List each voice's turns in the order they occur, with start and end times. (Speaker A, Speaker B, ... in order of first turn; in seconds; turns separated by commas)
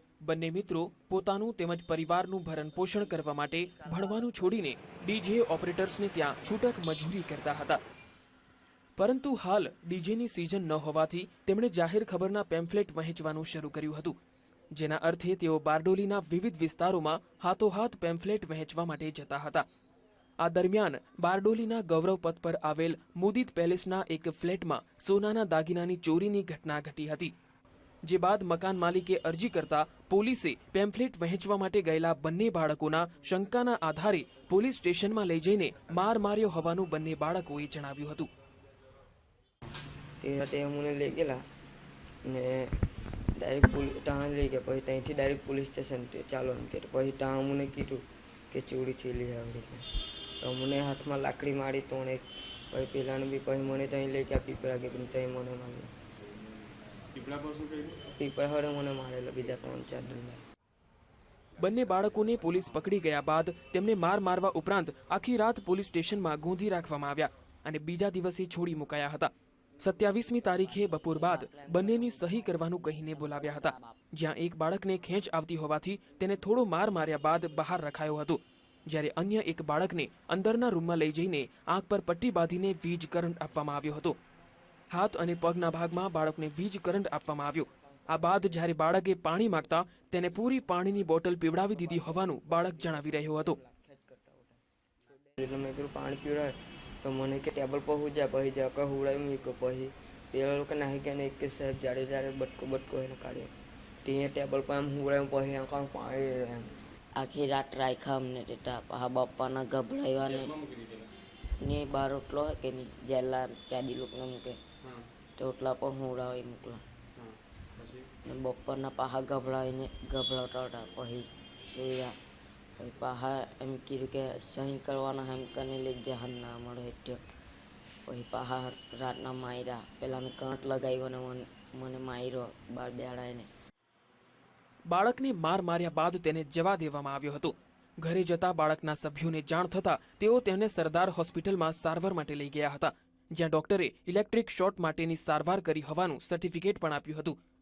Speaker A: 0.2-7.8, Speaker B: 3.0-4.3, Speaker A: 9.0-14.2, Speaker A: 14.7-19.6, Speaker A: 20.4-27.3, Speaker A: 28.0-38.3, Speaker C: 40.2-41.4, Speaker C: 42.2-49.9, Speaker C: 50.4-55.9, Speaker D: 57.1-58.1, Speaker C: 58.1-60.4, Speaker A: 61.6-84.2, Speaker B: 70.4-74.0, Speaker A: 84.9-93.6, Speaker C: 88.1-88.6, Speaker C: 91.6-106.7, Speaker B: 107.2-110.5, Speaker D: 110.2-111.1, Speaker B: 111.6-114.6, Speaker D: 114.8-115.1, Speaker B: 115.4-116.8, Speaker D: 117.2-118.1, Speaker B: 118.2-122.2, Speaker B: 122.8-127.2, Speaker B: 128.1-133.5, Speaker A: 134.9-147.4